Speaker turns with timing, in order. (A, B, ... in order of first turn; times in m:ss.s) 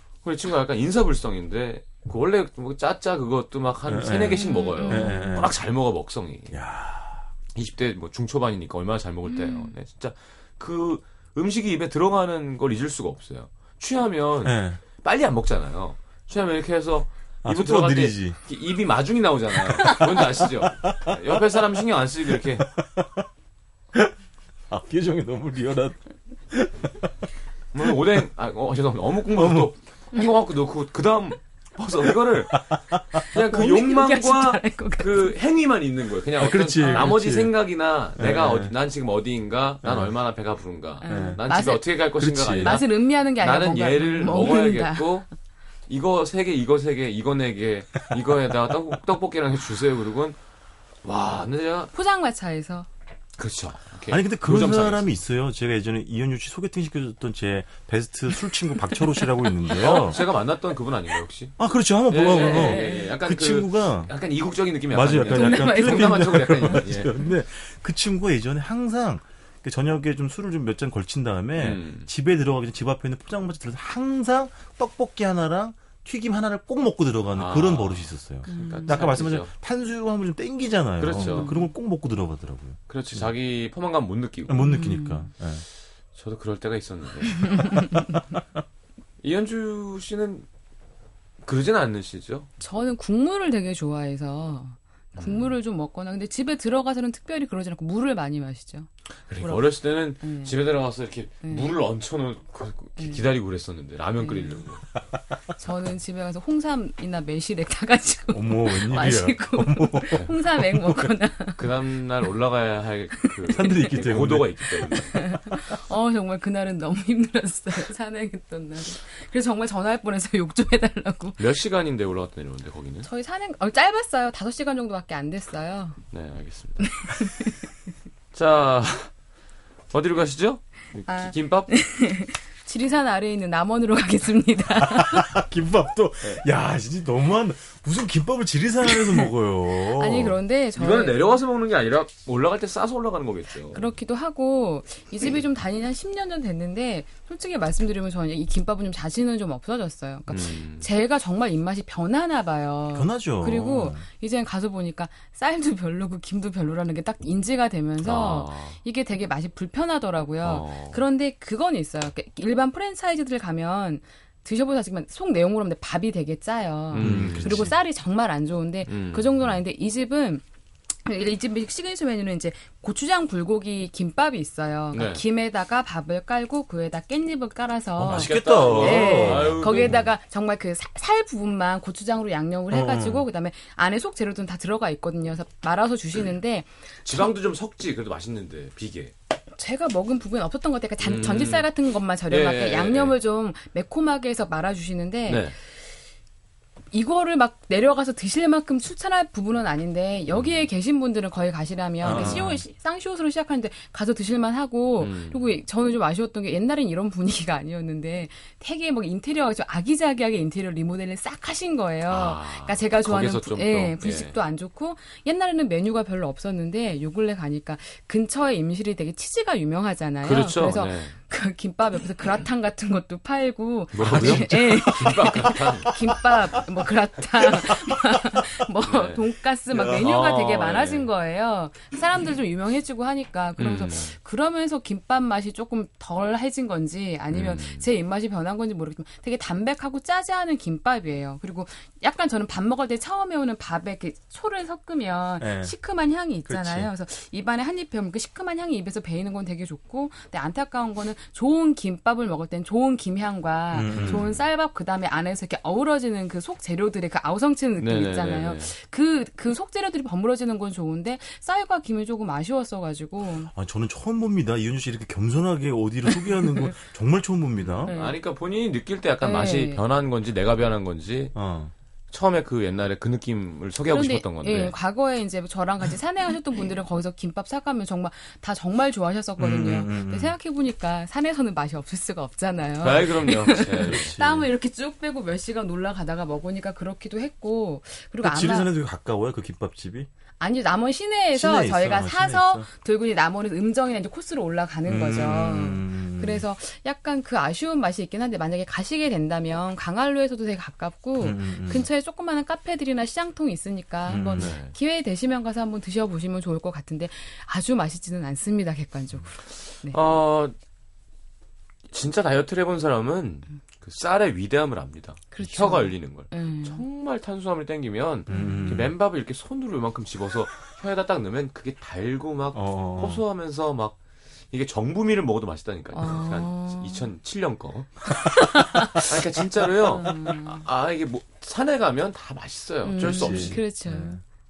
0:00.2-0:06.6 A
0:03.8-0:05.5 B
0:04.4-0:05.4 C
0:06.5-0:07.2 B
0:07.5-0:22.7 A
0:09.3-0:09.7 C
0:14.4-0:14.8 B
0:17.4-0:18.4 B
0:19.9-0:21.4 B
0:22.3-0:23.2 B
0:24.7-0:26.0 B
0:26.5-0:27.1 B
0:27.7-0:45.3 A
0:29.3-0:29.7 B
0:32.5-0:33.2 B
0:33.4-0:35.4 C
0:36.4-0:37.5 B
0:38.2-0:38.7 B
0:39.8-0:40.1 B
0:41.0-0:41.8 C
0:41.1-0:41.4 B
0:42.2-0:42.8 B
0:42.6-0:45.2 C
0:45.9-0:50.4 A
0:51.0-0:51.9 A
0:51.9-0:52.9 C
0:53.4-0:55.1 A
0:54.1-1:00.2 B
0:59.0-0:59.3 C
0:59.7-1:01.5 A
1:01.6-1:04.1 B
1:02.1-1:07.1 A
1:02.2-1:03.1 C
1:04.9-1:23.3 B
1:05.2-1:06.8 C
1:11.6-1:12.1 A
1:17.3-1:19.5 A
1:18.4-1:19.1 C
1:21.0-1:21.5 A
1:21.1-1:21.7 C
1:22.9-1:24.7 A
1:24.5-1:25.6 B
1:24.6-1:25.3 C
1:26.1-1:27.9 A
1:27.6-1:28.1 C
1:29.2-1:30.5 A
1:31.4-1:32.5 A
1:32.6-1:38.9 C
1:35.2-1:35.5 A
1:39.3-1:44.8 A
1:39.4-1:40.5 C
1:41.4-1:41.7 C
1:44.2-1:44.6 C
1:45.6-1:51.6 C
1:48.3-1:51.1 B
1:51.6-1:55.3 A
1:53.2-1:53.9 C
1:53.5-1:54.6 B
1:54.9-2:01.4 C
2:01.4-2:03.1 A
2:03.0-2:06.0 C
2:06.1-2:07.0 A
2:06.8-2:07.7 C
2:08.3-2:09.1 A
2:09.9-2:11.8 A
2:11.0-2:15.3 C
2:14.8-2:20.4 B
2:19.8-2:21.4 C
2:20.7-2:23.9 A
2:23.7-2:50.4 C
2:30.3-2:30.9 A
2:32.9-2:34.0 B
2:38.0-2:38.8 A
2:40.4-2:41.0 A
2:46.9-2:47.7 A
2:47.0-2:47.7 B
2:48.9-2:49.4 A
2:51.0-3:07.2 C
2:54.9-2:55.2 A
2:58.0-3:00.1 B
2:58.1-3:00.0 A
3:02.7-3:03.3 B
3:07.0-3:09.1 A
3:09.5-3:15.5 C
3:11.0-3:11.7 A
3:12.3-3:13.1 A
3:15.3-3:15.5 A
3:16.9-4:23.5 C
3:22.0-3:22.6 B
3:22.0-3:22.4 A
3:25.0-3:25.4 A
3:32.1-3:34.3 A
3:40.2-3:41.1 A
3:43.9-3:46.2 A
3:44.0-3:46.2 B
3:48.8-3:51.1 A
3:53.6-3:54.2 A
3:57.3-3:57.8 A
4:05.4-4:05.7 B
4:06.4-4:06.9 B
4:13.7-4:14.2 B
4:13.9-4:14.3 A
4:17.8-4:18.7 A
4:23.5-4:27.9 B
4:26.2-4:26.8 C
4:27.6-4:31.3 A
4:27.8-4:28.2 C
4:29.2-4:29.8 C
4:31.3-4:31.7 B
4:32.1-4:34.7 A
4:33.9-4:48.7 C
4:39.4-4:40.3 B
4:42.8-4:44.2 A
4:43.8-4:44.5 B
4:48.2-4:50.1 B
4:50.4-5:10.0 C
4:51.3-4:52.7 B
4:54.8-4:56.4 B
5:01.2-5:01.9 B
5:04.1-5:04.5 B
5:04.3-5:04.7 A
5:09.9-5:10.5 A
5:11.9-5:24.0 A
5:15.3-5:16.8 C
5:18.3-5:18.9 C
5:18.3-5:18.9 B
5:22.5-5:23.2 B
5:24.5-5:28.2 A
5:26.0-5:27.1 C
5:28.2-5:29.1 C
5:28.9-5:33.6 A
5:29.8-5:30.6 C
5:32.8-5:34.2 C
5:33.0-5:34.2 B